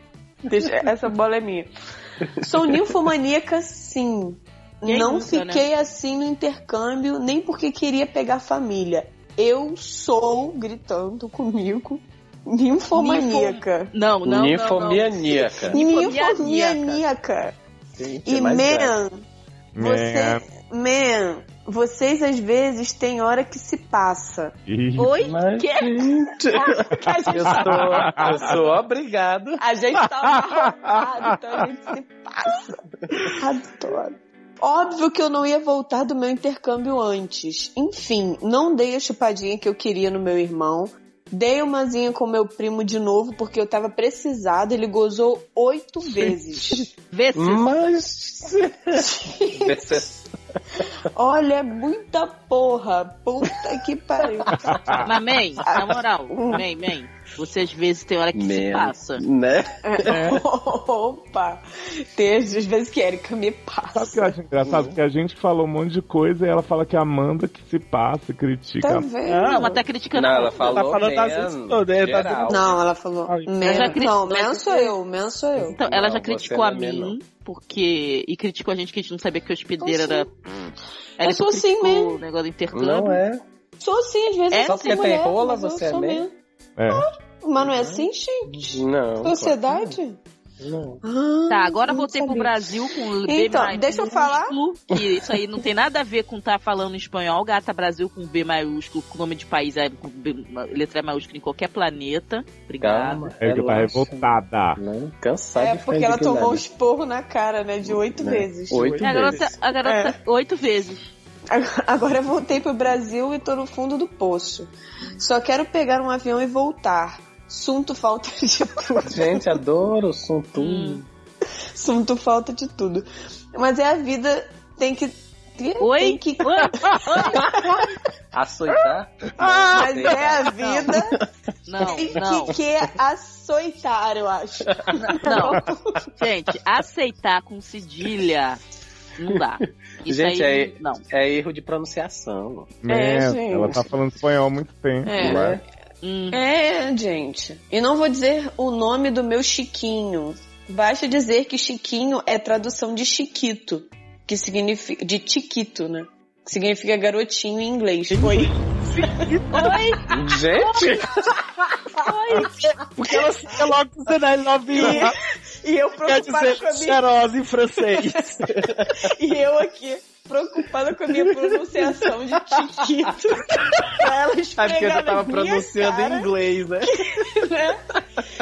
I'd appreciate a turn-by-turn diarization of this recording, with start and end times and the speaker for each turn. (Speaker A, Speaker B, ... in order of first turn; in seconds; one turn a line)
Speaker A: 0.5-1.7
Speaker B: 2.2-2.9
Speaker A: 2.4-13.9
Speaker C: 4.8-5.6
Speaker C: 12.9-17.0
Speaker B: 14.2-15.8
Speaker A: 15.7-17.6
Speaker B: 17.9-18.9
Speaker A: 18.2-19.1
Speaker D: 19.7-20.4
Speaker A: 19.8-24.6
Speaker D: 24.7-25.2
Speaker C: 25.0-26.1
Speaker B: 25.2-29.6
Speaker A: 26.6-28.3
Speaker D: 27.6-28.2
Speaker A: 29.6-46.9
Speaker C: 47.1-47.6
Speaker B: 47.3-50.2
Speaker A: 49.0-49.8
Speaker A: 51.1-55.0
Speaker D: 54.5-55.1
Speaker C: 55.0-59.2
Speaker A: 55.6-56.6
Speaker B: 58.3-60.4
Speaker A: 59.8-61.6
Speaker A: 62.1-64.3
Speaker D: 63.9-69.1
Speaker B: 64.6-64.9
Speaker A: 68.8-69.8
Speaker E: 69.2-69.7
Speaker C: 69.5-70.8
Speaker B: 70.1-72.8
Speaker E: 70.6-72.7
Speaker A: 72.5-75.8
Speaker E: 73.3-74.0
Speaker C: 73.7-74.9
Speaker B: 75.6-77.1
Speaker C: 75.8-80.3
Speaker A: 79.8-80.3
Speaker C: 81.2-83.2
Speaker A: 81.2-82.2
Speaker B: 82.7-83.4
Speaker A: 83.8-86.3
Speaker C: 84.5-85.1
Speaker B: 84.5-86.2
Speaker D: 86.8-87.0
Speaker A: 86.9-90.2
Speaker B: 87.6-90.0
Speaker B: 90.6-91.0
Speaker A: 91.0-92.7
Speaker C: 91.5-103.3
Speaker A: 93.2-94.5
Speaker B: 102.8-106.7
Speaker D: 103.4-104.8
Speaker A: 105.5-110.1
Speaker B: 107.8-109.5
Speaker C: 109.0-111.0
Speaker A: 111.5-119.5
Speaker B: 119.1-121.1
Speaker C: 120.6-121.0
Speaker A: 121.7-127.8
Speaker C: 125.8-127.5
Speaker B: 127.4-131.2
Speaker A: 129.7-131.2
Speaker C: 131.7-132.5
Speaker B: 131.8-132.5
Speaker A: 131.8-136.0
Speaker B: 134.7-135.5
Speaker C: 135.0-135.6
Speaker C: 136.2-138.6
Speaker C: 139.2-141.0
Speaker B: 140.1-142.7
Speaker D: 142.8-145.6
Speaker A: 142.9-143.9
Speaker A: 145.0-145.6
Speaker B: 145.2-145.6
Speaker C: 146.0-146.4
Speaker A: 146.3-159.2
Speaker E: 158.1-159.8
Speaker C: 159.5-161.0
Speaker B: 160.1-161.3
Speaker C: 162.0-162.5
Speaker E: 162.4-165.1
Speaker A: 164.7-167.0
Speaker E: 166.0-168.4
Speaker A: 167.9-168.3
Speaker B: 168.5-169.1
Speaker A: 168.9-176.3
Speaker B: 174.6-177.2
Speaker A: 176.9-177.8